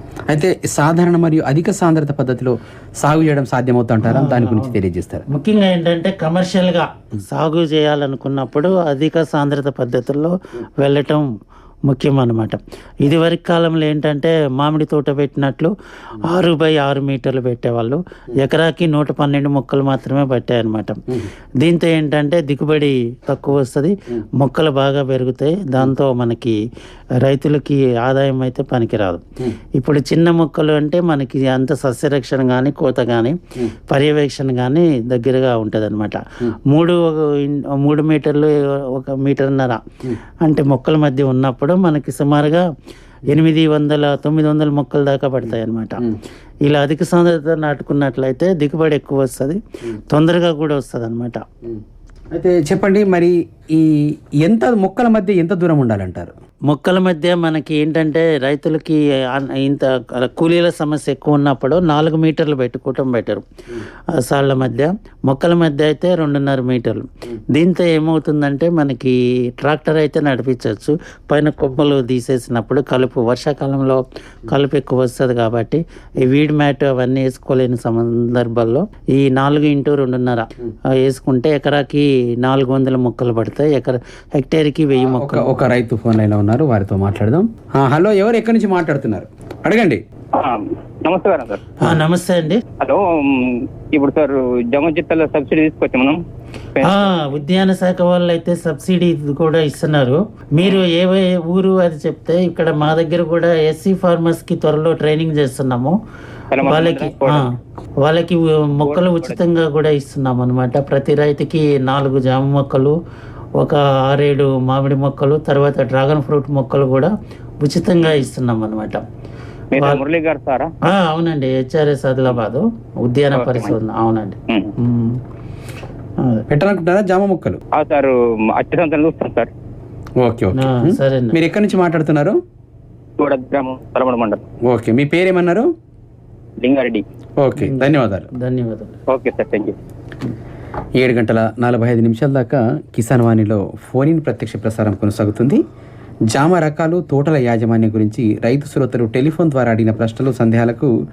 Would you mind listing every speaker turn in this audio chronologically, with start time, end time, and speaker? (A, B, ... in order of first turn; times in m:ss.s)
0:00.3-0:05.2 A
0:04.0-0:04.8 B
0:05.3-0:11.3 B
0:11.8-0:26.6 B
0:27.2-0:42.7 B
0:43.2-0:46.0 B
0:46.6-0:51.4 B
0:52.3-0:56.3 A
0:56.7-1:03.4 B
1:04.1-1:25.5 B
1:25.0-1:30.0 A
1:30.3-1:31.7 C
1:31.8-1:32.6 B
1:32.8-1:36.2 C
1:36.7-1:37.3 C
1:36.8-1:46.0 B
1:46.5-1:47.5 C
1:46.6-1:53.0 B
1:48.8-1:49.2 C
1:53.6-1:59.0 B
1:59.7-2:00.7 C
1:59.8-2:00.0 B
2:00.8-2:05.2 B
2:03.3-2:03.8 C
2:06.2-2:06.4 B
2:06.5-2:07.6 A
2:07.7-2:09.5 C
2:10.2-2:12.4 A
2:10.5-2:11.4 B
2:13.2-2:14.4 C
2:14.6-2:15.7 A
2:16.6-2:17.0 C
2:17.4-2:18.3 A
2:17.6-2:19.0 B
2:19.1-2:19.7 C
2:21.0-2:25.6 A
2:26.3-2:30.9 A